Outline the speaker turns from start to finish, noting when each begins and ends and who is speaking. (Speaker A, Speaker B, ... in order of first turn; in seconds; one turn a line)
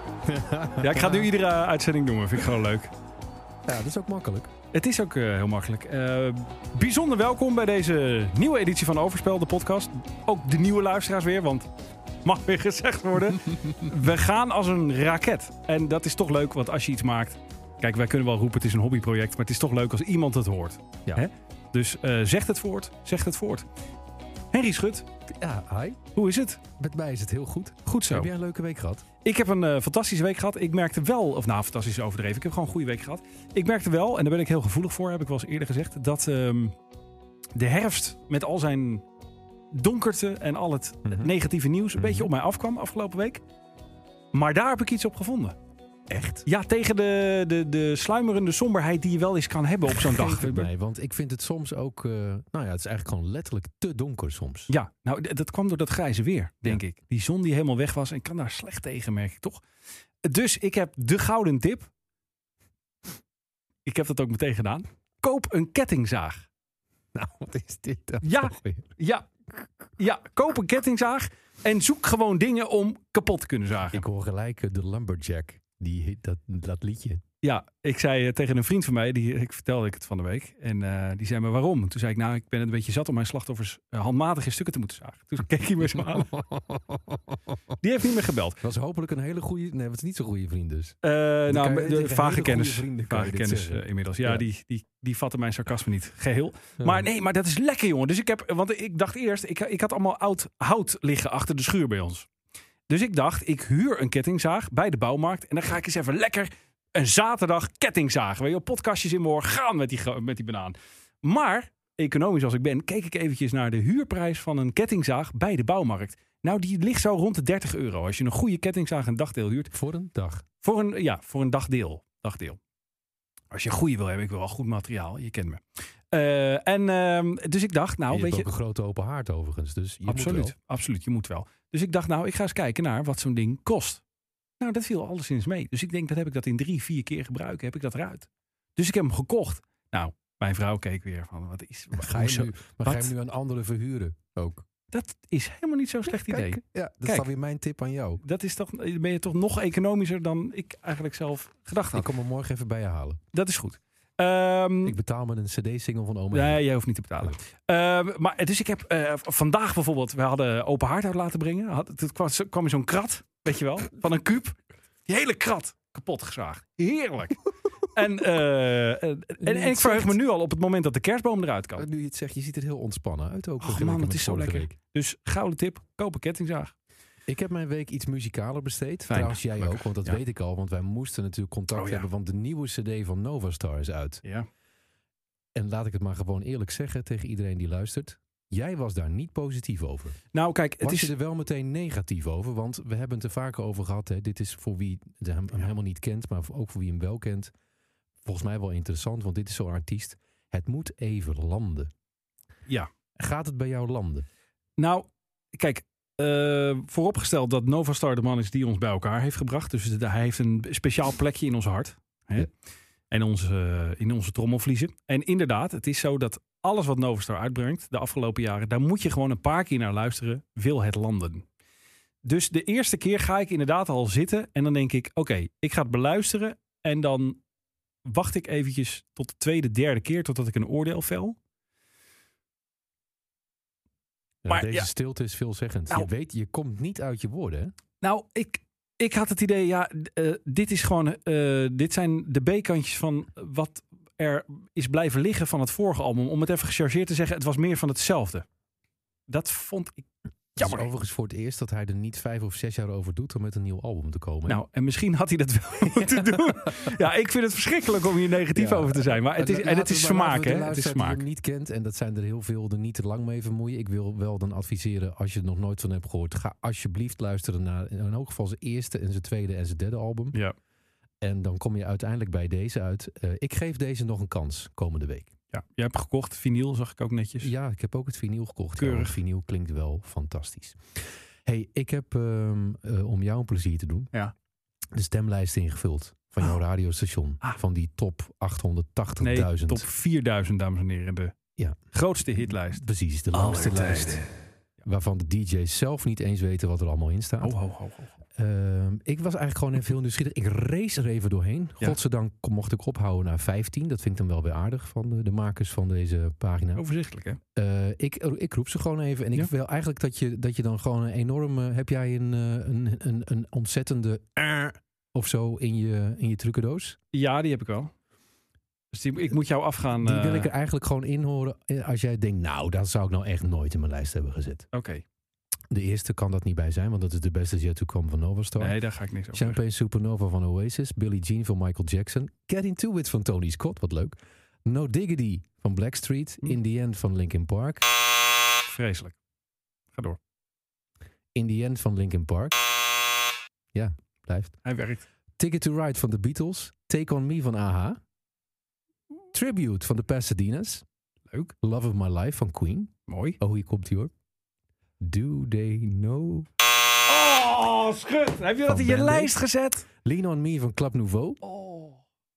Speaker A: 0.3-1.3
Speaker B: 0.8-2.9
Speaker A: 3.7-4.5
Speaker B: 4.7-11.7
Speaker B: 12.2-23.7
Speaker B: 24.5-25.1
Speaker A: 25.3-26.0
Speaker B: 26.1-26.6
Speaker A: 26.8-29.1
Speaker B: 27.9-28.3
Speaker B: 29.2-36.7
Speaker B: 37.5-39.0
Speaker B: 39.7-43.4
Speaker A: 41.1-41.3
Speaker A: 42.0-42.3
Speaker B: 44.3-45.6
Speaker A: 46.1-46.5
Speaker B: 46.5-50.7
Speaker A: 49.9-54.7
Speaker B: 54.7-59.6
Speaker B: 60.2-61.9
Speaker B: 63.9-66.5
Speaker A: 67.2-69.0
Speaker B: 68.2-69.3
Speaker B: 70.0-74.0
Speaker A: 73.9-77.2
Speaker B: 77.4-86.3
Speaker A: 85.8-87.4
Speaker B: 87.8-88.6
Speaker A: 88.6-91.0
Speaker B: 91.0-102.3
Speaker A: 91.5-94.4
Speaker A: 96.8-97.1
Speaker B: 102.9-119.7
Speaker A: 119.7-120.5
Speaker B: 120.6-122.6
Speaker B: 123.5-128.5
Speaker A: 128.1-130.5
Speaker B: 130.1-134.0
Speaker B: 134.6-143.1
Speaker A: 142.0-144.7
Speaker B: 144.9-147.3
Speaker A: 146.1-148.2
Speaker B: 148.2-152.1
Speaker A: 151.9-153.2
Speaker B: 153.3-155.0
Speaker A: 154.8-156.6
Speaker B: 156.3-171.9
Speaker A: 169.4-170.2
Speaker A: 171.8-174.7
Speaker B: 173.6-176.7
Speaker A: 177.3-184.2
Speaker B: 179.1-180.2
Speaker B: 181.7-182.1
Speaker A: 185.6-190.2
Speaker B: 190.3-191.1
Speaker A: 190.8-197.5
Speaker A: 198.2-201.9
Speaker A: 203.2-204.3
Speaker B: 204.8-212.5
Speaker B: 213.1-221.4
Speaker B: 222.2-227.4
Speaker B: 228.1-231.4
Speaker A: 234.4-237.7
Speaker B: 234.5-234.9
Speaker B: 238.0-248.4
Speaker B: 249.3-250.1
Speaker B: 250.6-250.9
Speaker A: 250.6-254.6
Speaker B: 254.5-261.2
Speaker A: 255.9-256.9
Speaker A: 258.5-270.4
Speaker A: 271.2-275.3
Speaker B: 275.5-277.5
Speaker A: 277.4-284.1
Speaker B: 278.8-279.1
Speaker A: 284.9-289.8
Speaker B: 289.2-291.4
Speaker B: 291.9-294.3
Speaker A: 292.4-294.2
Speaker A: 294.9-297.6
Speaker B: 297.4-298.1
Speaker A: 298.4-306.9
Speaker B: 306.8-307.4
Speaker A: 307.6-317.0
Speaker B: 317.1-317.9
Speaker B: 318.9-320.5
Speaker A: 320.0-324.7
Speaker B: 324.7-325.0
Speaker A: 325.7-328.8
Speaker B: 328.6-329.6
Speaker A: 329.3-334.1
Speaker A: 334.7-337.9
Speaker B: 338.7-339.2
Speaker A: 341.4-342.6
Speaker A: 343.7-344.6
Speaker B: 344.6-345.0
Speaker A: 345.4-348.0
Speaker A: 349.3-350.9
Speaker A: 351.6-354.1
Speaker B: 353.1-353.4
Speaker A: 355.0-356.5
Speaker B: 357.1-359.9
Speaker A: 358.7-359.4
Speaker A: 360.0-361.4
Speaker B: 361.4-362.0